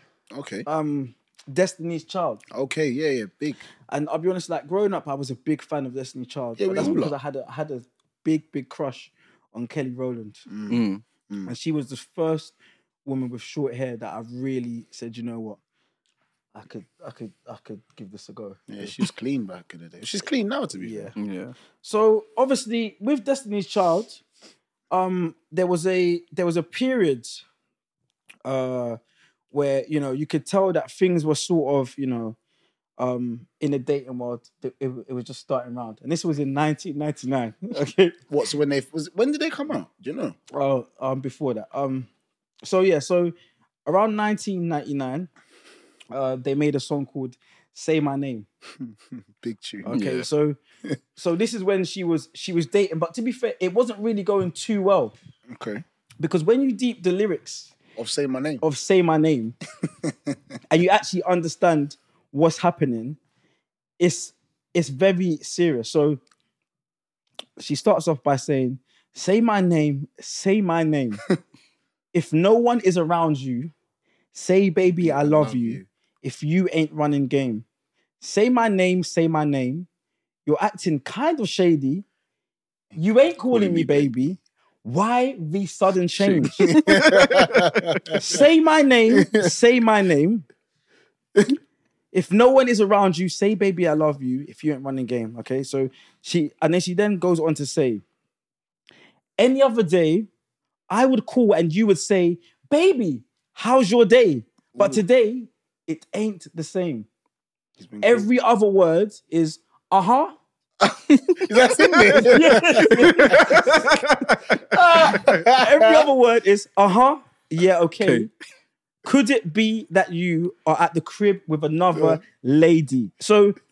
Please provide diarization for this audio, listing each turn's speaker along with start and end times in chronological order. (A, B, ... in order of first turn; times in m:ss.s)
0:00.3-0:00.6 A
0:00.6-0:02.4 B
0:02.5-0:03.6 A
0:03.9-0:10.4 B
0:06.6-0:07.2 A
0:10.5-0:11.5 A
0:10.7-0:11.0 C
0:11.4-0:12.5 B
0:13.0-0:15.6 B
0:16.5-0:18.9 B
0:18.7-0:21.1 A
0:20.8-0:21.2 B
0:21.2-0:21.5 C
0:21.8-0:24.2 B
0:24.9-0:27.4 B
0:28.4-0:29.0 B
0:29.5-0:32.4 B
0:33.0-0:38.2 B
0:38.3-0:40.4 A
0:40.5-0:42.1 B
0:42.6-0:43.3 B
0:43.8-0:45.3 B
0:46.1-0:48.5 B
0:48.8-0:49.9 A
0:49.8-0:50.6 B
0:49.9-0:50.2 C
0:51.2-0:55.2 B
0:55.5-0:55.8 A
0:56.2-0:57.7 B
0:58.0-0:58.6 A
0:58.6-0:59.5 B
1:00.0-1:00.4 A
1:00.7-1:03.2 B
1:04.0-1:06.2 B
1:07.6-1:11.2 B
1:12.1-1:13.7 B
1:14.3-1:17.6 B
1:15.0-1:15.8 A
1:18.2-1:19.9 B
1:20.4-1:22.0 B
1:23.0-1:26.7 B
1:23.5-1:24.1 A
1:26.2-1:28.2 C
1:26.6-1:28.4 A
1:28.1-1:30.4 B
1:29.1-1:29.5 A
1:32.1-1:38.0 B
1:39.4-1:40.3 B
1:40.9-1:47.1 B
1:44.7-1:45.0 A
1:47.8-1:48.3 A
1:48.0-1:50.4 B
1:50.8-1:54.0 A
1:51.3-1:55.3 C
1:52.2-1:53.9 B
1:54.7-1:58.3 B
1:54.9-1:56.1 A
1:58.0-1:58.3 C
1:59.0-2:03.6 B
2:01.9-2:02.2 A